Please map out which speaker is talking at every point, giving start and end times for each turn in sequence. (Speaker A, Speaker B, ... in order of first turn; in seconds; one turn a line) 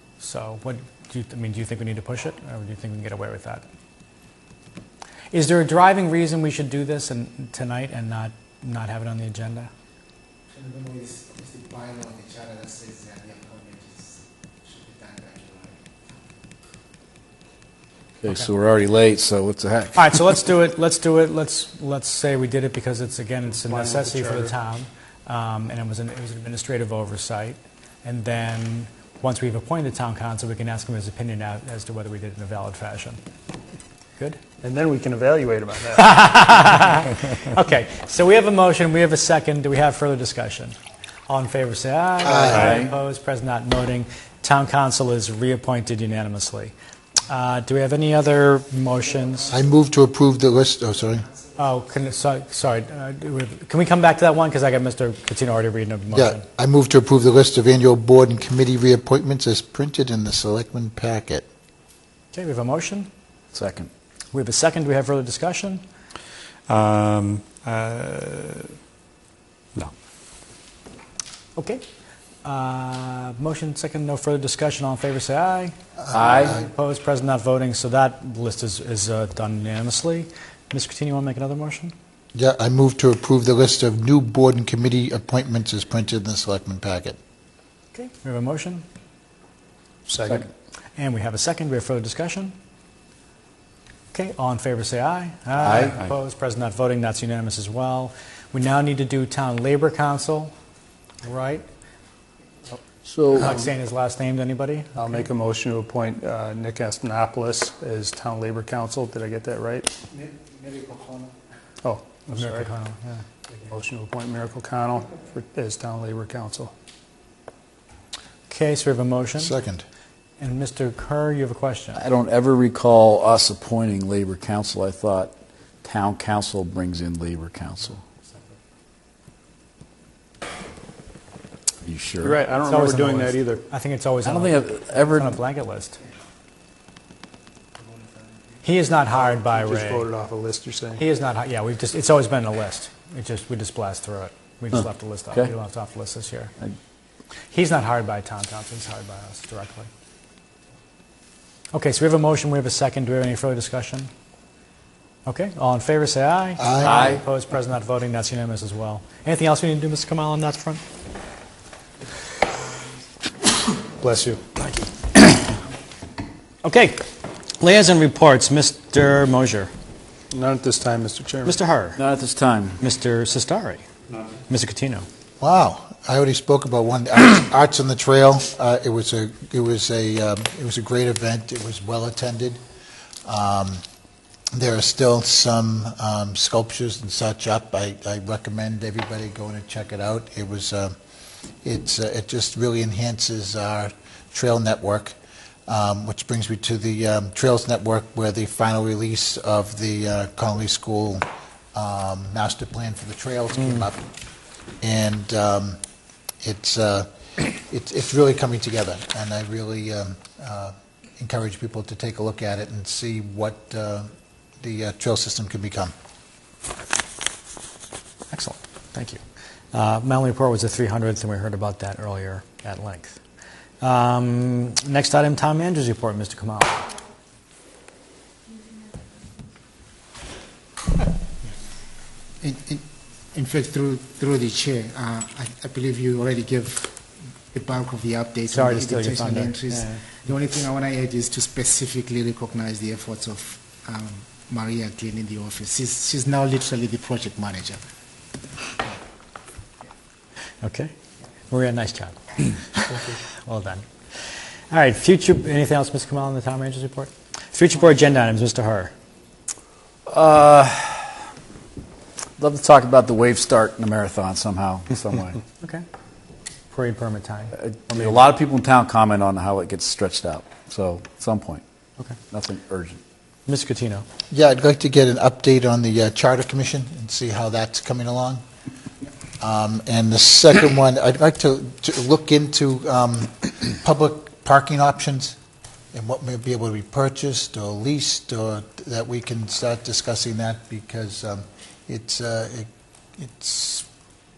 Speaker A: 0.2-3.6
Speaker A: 5.3-9.7
Speaker B: 10.5-15.8
Speaker C: 18.2-20.1
Speaker A: 20.0-33.2
Speaker D: 23.6-24.5
Speaker D: 34.6-36.2
Speaker A: 36.0-40.8
Speaker A: 41.3-46.7
Speaker E: 42.2-42.6
Speaker C: 42.5-42.9
Speaker A: 47.3-49.5
Speaker E: 49.5-51.3
Speaker A: 51.6-56.4
Speaker E: 56.1-61.5
Speaker A: 62.3-63.1
Speaker C: 63.5-63.9
Speaker A: 64.3-65.8
Speaker D: 66.7-68.7
Speaker A: 71.6-71.8
Speaker A: 72.4-81.9
Speaker E: 76.0-76.5
Speaker C: 76.1-76.5
Speaker E: 82.3-87.2
Speaker A: 87.9-88.8
Speaker D: 90.1-90.5
Speaker A: 91.0-92.5
Speaker A: 94.1-100.5
Speaker C: 95.6-96.0
Speaker A: 101.2-101.7
Speaker C: 103.0-103.6
Speaker A: 103.4-105.1
Speaker D: 105.0-109.9
Speaker B: 110.2-111.3
Speaker D: 111.8-112.7
Speaker A: 112.3-113.2
Speaker D: 113.6-116.7
Speaker A: 118.5-119.5
Speaker E: 119.4-119.9
Speaker A: 120.4-122.0
Speaker C: 122.0-128.0
Speaker C: 131.8-132.4
Speaker D: 132.2-133.7
Speaker A: 132.6-136.0
Speaker C: 134.2-135.4
Speaker A: 138.6-140.1
Speaker D: 139.1-141.0
Speaker A: 141.0-146.5
Speaker A: 147.5-149.9
Speaker A: 151.7-154.1
Speaker A: 155.3-160.8
Speaker E: 156.6-157.0
Speaker C: 156.8-157.2
Speaker D: 164.0-164.7
Speaker A: 166.6-167.0
Speaker A: 167.6-169.7
Speaker D: 170.3-171.6
Speaker A: 171.4-172.0
Speaker C: 172.0-172.8
Speaker A: 172.8-173.8
Speaker A: 174.5-175.1
Speaker E: 175.4-182.6
Speaker E: 183.2-183.8
Speaker E: 184.6-191.0
Speaker E: 191.6-195.2
Speaker E: 195.7-204.0
Speaker E: 204.8-205.8
Speaker E: 206.4-214.1
Speaker E: 214.6-215.9
Speaker A: 218.3-219.2
Speaker A: 219.7-223.2
Speaker A: 223.8-226.9
Speaker B: 232.4-237.0
Speaker B: 237.5-247.8
Speaker A: 238.5-240.0
Speaker A: 250.6-250.9
Speaker A: 251.5-253.8
Speaker A: 254.7-258.9
Speaker C: 260.1-261.2
Speaker C: 262.4-265.4
Speaker A: 266.7-268.2
Speaker C: 267.6-271.6
Speaker C: 272.3-273.0
Speaker A: 273.5-274.1
Speaker E: 274.3-278.4
Speaker E: 279.4-285.4
Speaker E: 285.9-293.9